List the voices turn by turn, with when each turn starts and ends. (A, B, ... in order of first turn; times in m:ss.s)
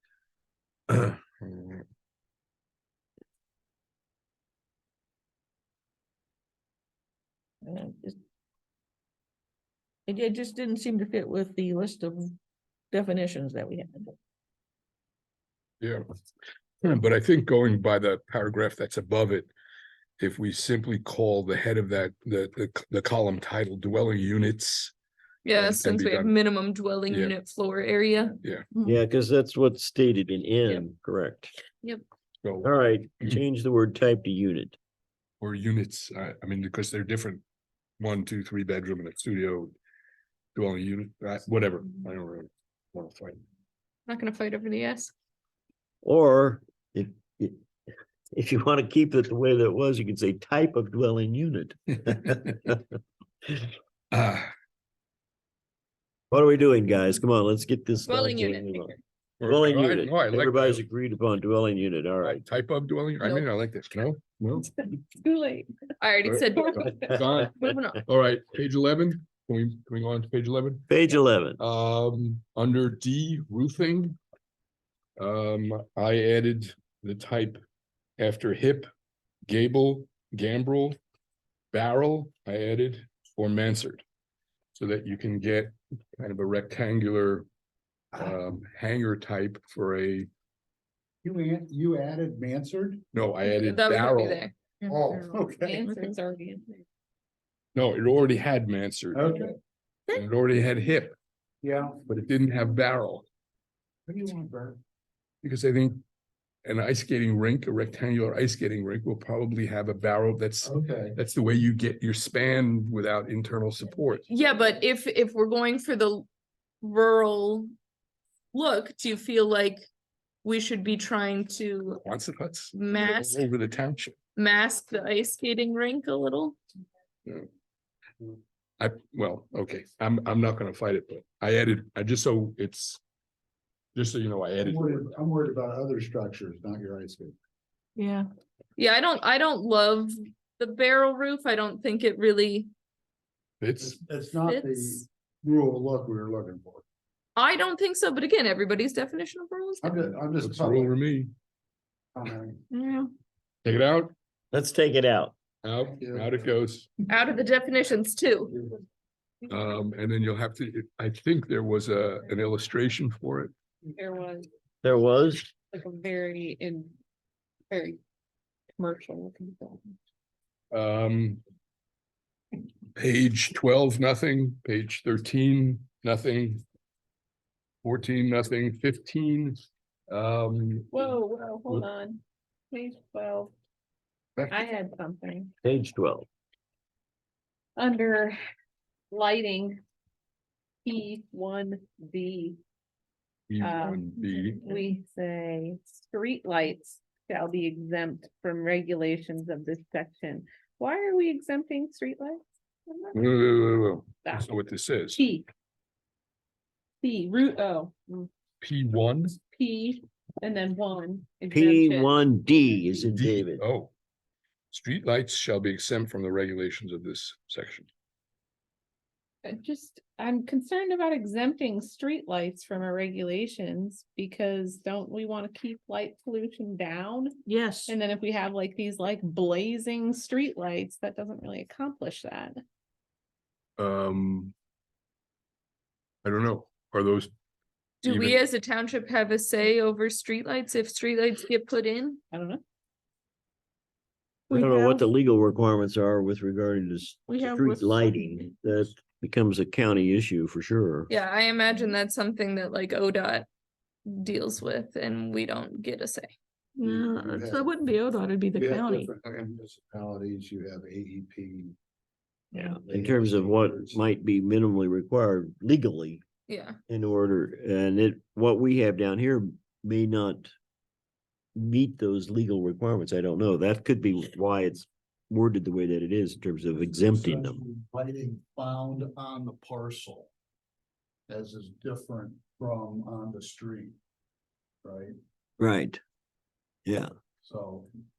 0:00.9-0:01.8 A
0:07.6-0:08.2 B
0:10.1-0:12.4 B
0:12.9-0:14.1 B
0:16.8-0:19.5 A
0:20.2-0:24.9 A
0:25.4-0:28.4 C
0:25.5-0:26.3 A
0:27.1-0:27.3 A
0:28.8-0:31.5 D
0:32.4-0:32.7 A
0:32.6-0:34.8 D
0:35.4-0:37.4 A
0:38.0-0:39.7 A
0:40.5-0:43.4 A
0:44.1-0:45.1 C
0:46.0-0:47.6 D
0:48.3-0:52.8 D
0:54.1-0:54.5 A
0:56.3-0:58.9 D
0:58.0-0:59.0 C
0:59.4-1:00.8 A
0:59.4-1:02.4 D
1:02.2-1:04.7 A
1:03.2-1:03.5 C
1:04.8-1:05.6 E
1:06.0-1:08.0 C
1:06.2-1:10.8 A
1:10.9-1:11.6 D
1:11.6-1:14.2 A
1:15.2-1:17.6 A
1:18.2-1:18.9 A
1:19.5-1:21.0 A
1:21.7-1:24.0 A
1:24.7-1:27.5 A
1:28.1-1:30.3 A
1:31.2-1:33.0 F
1:33.1-1:34.4 A
1:33.4-1:34.7 C
1:34.9-1:35.8 F
1:35.6-1:36.8 E
1:37.7-1:39.6 A
1:39.1-1:39.6 F
1:40.1-1:41.2 A
1:41.6-1:42.0 F
1:42.0-1:43.2 A
1:44.0-1:44.8 F
1:45.4-1:46.0 A
1:46.6-1:54.3 A
1:50.6-1:51.2 F
1:54.3-1:56.2 C
1:56.8-1:57.7 C
1:58.5-1:59.8 C
2:00.4-2:02.0 C
2:02.0-2:04.2 A
2:02.7-2:03.4 C
2:04.4-2:06.6 C
2:08.8-2:13.0 A
2:13.9-2:15.1 A
2:14.6-2:17.4 F
2:18.0-2:18.3 B
2:18.8-2:22.7 C
2:23.6-2:24.0 A
2:23.8-2:26.8 F
2:24.4-2:25.0 C
2:27.4-2:30.0 C
2:29.8-2:30.9 F
2:30.4-2:31.3 A
2:32.1-2:32.6 F
2:32.7-2:33.1 C
2:33.6-2:34.1 A
2:34.5-2:35.3 D
2:35.6-2:36.9 A
2:35.8-2:36.5 F
2:37.1-2:38.5 C
2:39.4-2:43.5 A
2:44.0-2:44.4 E
2:44.8-2:45.5 D
2:45.7-2:46.9 E
2:47.7-2:48.0 E
2:48.8-2:50.0 E
2:50.7-2:51.4 A
2:53.0-2:56.6 A
2:57.8-3:01.1 A
3:00.9-3:02.2 E
3:02.7-3:03.5 E
3:04.5-3:05.5 E
3:05.6-3:06.2 D
3:07.8-3:08.4 E
3:09.1-3:09.8 E
3:10.8-3:12.6 E
3:13.5-3:14.8 A
3:13.6-3:23.1 E
3:23.1-3:25.2 A
3:25.2-3:25.4 E
3:27.0-3:28.3 E
3:28.6-3:29.4 A
3:29.5-3:32.2 E
3:31.5-3:33.6 D
3:33.0-3:33.9 A
3:34.7-3:37.9 A
3:39.4-3:47.3 E
3:47.4-3:47.9 B
3:47.9-3:52.6 E
3:53.8-3:54.5 A
3:56.2-3:57.3 A
3:58.0-4:02.2 C
3:58.0-3:58.4 A
4:02.3-4:02.6 E
4:04.5-4:05.1 B
4:04.5-4:11.1 D
4:07.2-4:08.5 B
4:11.1-4:13.5 C
4:14.0-4:16.3 C
4:16.8-4:19.1 B
4:16.8-4:17.7 F
4:18.5-4:21.8 F
4:22.5-4:22.8 B
4:22.6-4:24.0 F
4:22.6-4:26.2 D
4:26.5-4:26.8 C
4:26.9-4:30.5 D
4:31.6-4:37.6 D
4:36.9-4:40.3 F
4:41.3-4:44.0 F
4:44.8-4:45.2 F
4:45.6-4:46.0 D
4:47.4-4:47.9 F